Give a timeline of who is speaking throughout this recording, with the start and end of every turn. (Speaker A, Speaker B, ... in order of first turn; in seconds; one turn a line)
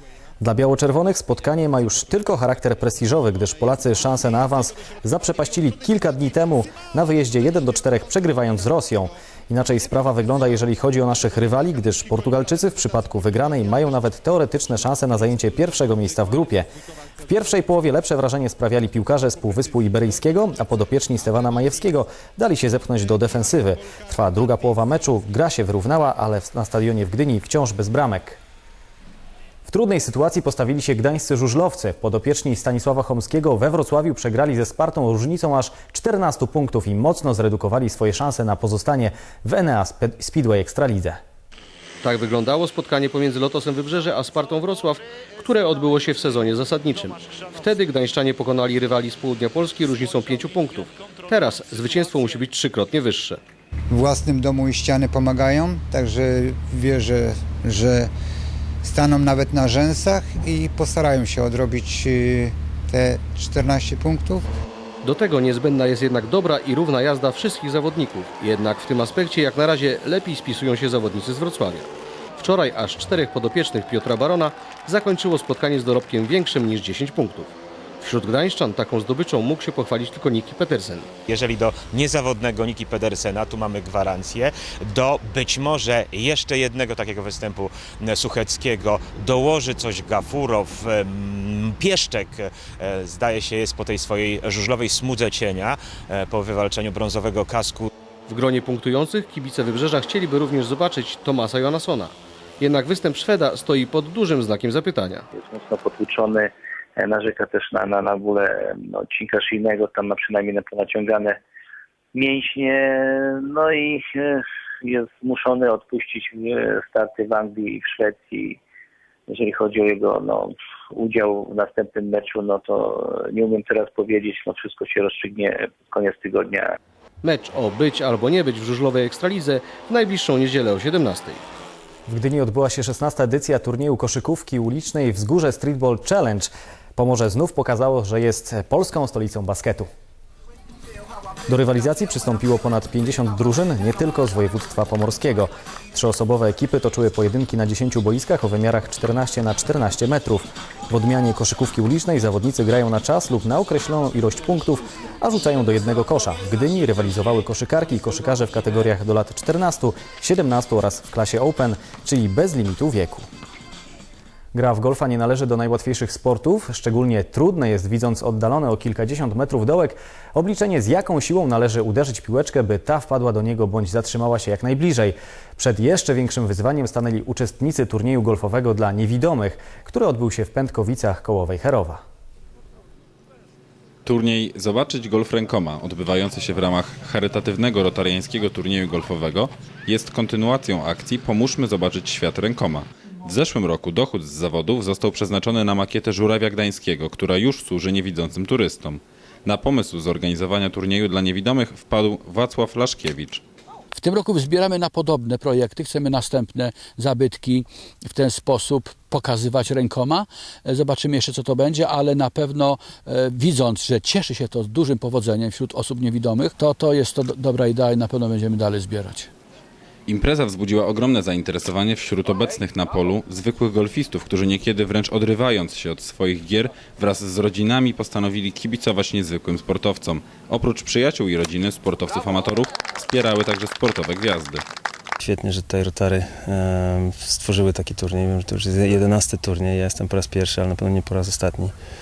Speaker A: 0.4-16.7
Speaker A: 17.2-28.4
Speaker A: 29.7-41.2
Speaker B: 42.0-53.4
Speaker C: 53.9-58.1
Speaker C: 58.8-64.4
Speaker B: 65.0-81.1
Speaker D: 81.3-97.9
Speaker B: 98.3-105.2
Speaker E: 105.3-111.4
Speaker E: 112.1-118.6
Speaker E: 119.3-126.7
Speaker B: 127.2-131.4
Speaker A: 132.1-139.9
Speaker A: 141.5-163.3
Speaker A: 164.5-182.0
Speaker F: 184.1-203.4
Speaker G: 203.9-219.3
Speaker F: 220.1-234.7
Speaker H: 235.2-241.7